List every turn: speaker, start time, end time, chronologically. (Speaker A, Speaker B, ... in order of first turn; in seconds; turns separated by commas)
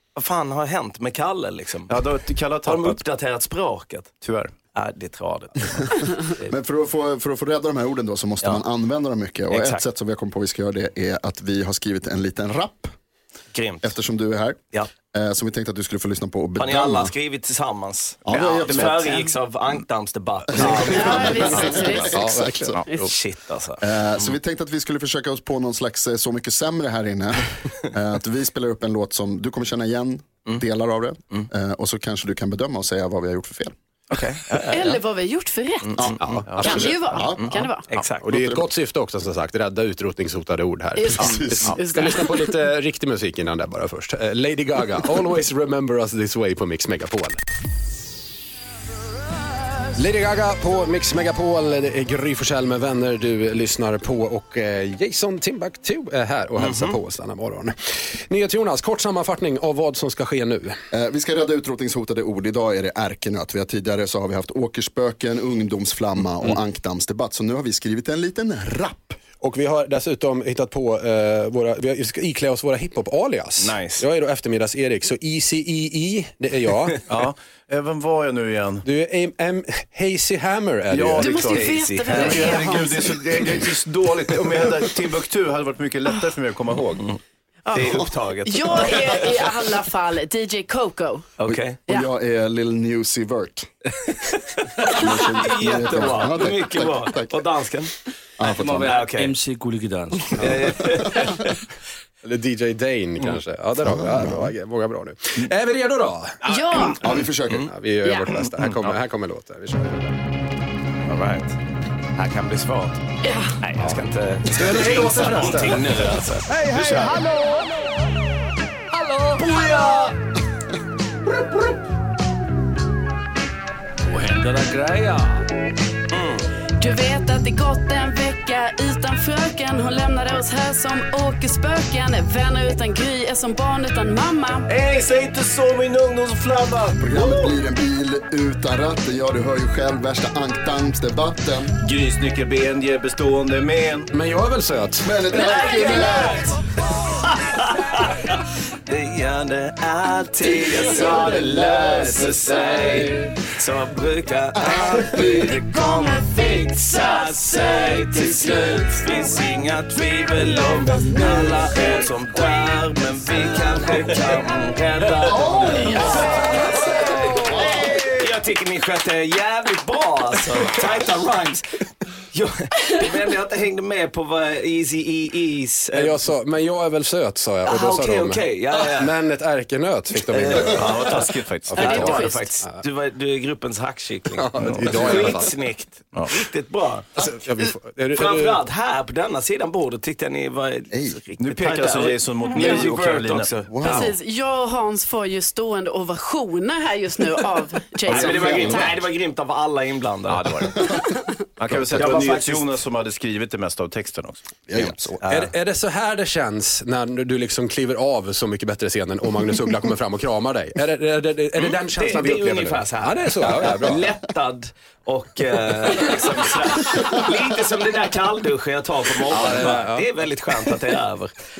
Speaker A: 0.2-2.0, Speaker B: 1.9-3.0, Speaker A: 2.6-4.1, Speaker B: 4.2-4.5, Speaker A: 4.7-6.5, Speaker C: 6.5-12.9, Speaker A: 9.5-9.8, Speaker A: 13.5-13.9, Speaker C: 13.8-14.6, Speaker C: 15.1-17.1, Speaker A: 16.6-21.8, Speaker C: 18.3-19.3, Speaker C: 20.5-22.8, Speaker D: 20.9-22.1, Speaker E: 22.0-23.1, Speaker A: 22.9-24.3, Speaker C: 23.8-33.8, Speaker A: 34.1-34.9, Speaker D: 34.7-37.9, Speaker A: 35.9-36.4, Speaker C: 36.0-37.6, Speaker E: 36.2-37.0, Speaker B: 36.5-36.9, Speaker A: 37.9-38.3, Speaker E: 38.2-47.4, Speaker C: 38.3-38.6, Speaker D: 41.0-42.3, Speaker C: 41.2-41.7, Speaker E: 50.0-60.8, Speaker A: 56.6-57.0, Speaker C: 60.9-69.2, Speaker E: 69.4-77.0, Speaker A: 73.6-74.0, Speaker B: 77.1-78.9, Speaker E: 78.8-81.4, Speaker B: 80.9-87.1, Speaker D: 81.2-83.2, Speaker A: 81.5-82.8, Speaker D: 87.7-91.3, Speaker A: 87.7-89.4, Speaker A: 91.4-91.8, Speaker C: 91.5-93.7, Speaker A: 94.6-97.9, Speaker C: 94.8-97.4, Speaker C: 98.4-99.0, Speaker F: 98.4-101.0, Speaker A: 98.7-99.3, Speaker A: 100.4-101.4, Speaker E: 102.2-106.9, Speaker C: 103.8-104.5, Speaker D: 106.5-107.0, Speaker C: 106.8-107.7, Speaker E: 107.6-110.2, Speaker A: 111.1-111.6, Speaker A: 112.2-113.0, Speaker D: 113.2-113.5, Speaker A: 113.6-117.0, Speaker E: 113.8-116.0, Speaker F: 119.4-120.1, Speaker F: 124.1-125.5, Speaker A: 126.1-126.5, Speaker D: 126.8-134.7, Speaker B: 135.2-136.1, Speaker C: 137.0-141.7, Speaker A: 137.2-137.4, Speaker B: 141.8-144.1, Speaker E: 144.1-145.1, Speaker C: 145.0-146.6, Speaker A: 145.7-146.4, Speaker A: 147.3-176.2, Speaker C: 154.6-155.7, Speaker C: 165.4-165.9, Speaker C: 167.5-167.8, Speaker E: 175.9-182.8, Speaker A: 177.7-179.1, Speaker A: 180.3-187.2, Speaker B: 180.6-182.2, Speaker D: 181.8-182.5, Speaker E: 184.3-185.5, Speaker B: 184.6-185.4, Speaker E: 187.2-188.6, Speaker A: 188.1-194.1, Speaker C: 190.9-191.2, Speaker B: 191.4-193.5, Speaker C: 193.7-194.1, Speaker D: 193.8-198.9, Speaker A: 198.1-200.7, Speaker B: 198.1-198.9, Speaker C: 198.2-198.8, Speaker B: 200.3-201.0, Speaker B: 201.6-205.2, Speaker A: 201.9-202.7, Speaker C: 204.7-205.2, Speaker E: 205.3-214.1, Speaker A: 211.6-221.3, Speaker E: 219.3-220.1